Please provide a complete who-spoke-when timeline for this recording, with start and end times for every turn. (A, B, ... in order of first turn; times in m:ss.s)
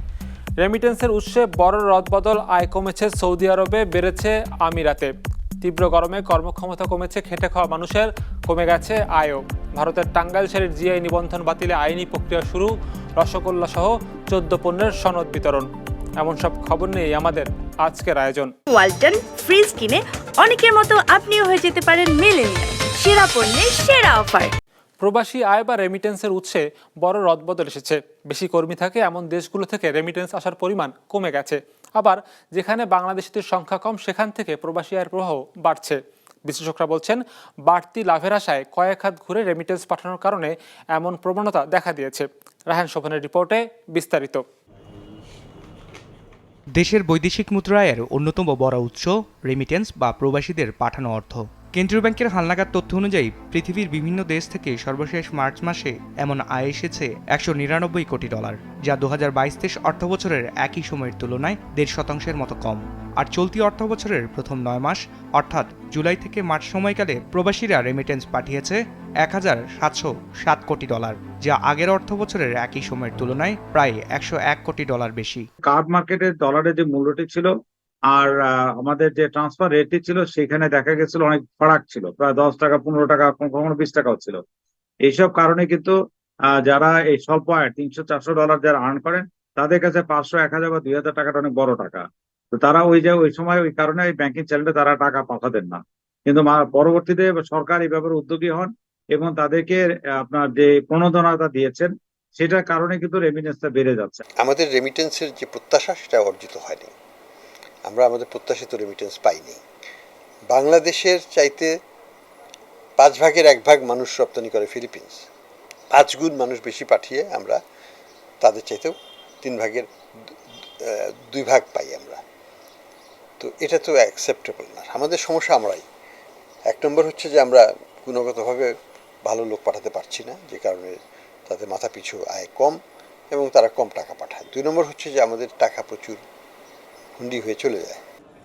0:00.6-0:15.7 A
0:16.2-0:18.5 A
0:18.7-0:24.5 B
0:25.0-0:44.4 A
0:46.8-1:15.5 C
1:15.7-1:17.5 D
1:18.1-1:24.4 D
1:25.1-1:25.9 D
1:26.6-1:44.2 D
1:44.4-1:46.9 E
1:47.9-1:49.6 E
1:50.5-1:51.7 E
1:53.0-1:55.2 E
1:55.9-1:57.6 E
1:58.4-1:59.9 E
2:00.8-2:02.2 E
2:03.4-2:05.8 E
2:06.7-2:08.7 E
2:09.2-2:11.0 E
2:11.5-2:12.8 E
2:13.3-2:16.2 E
2:17.2-2:18.0 E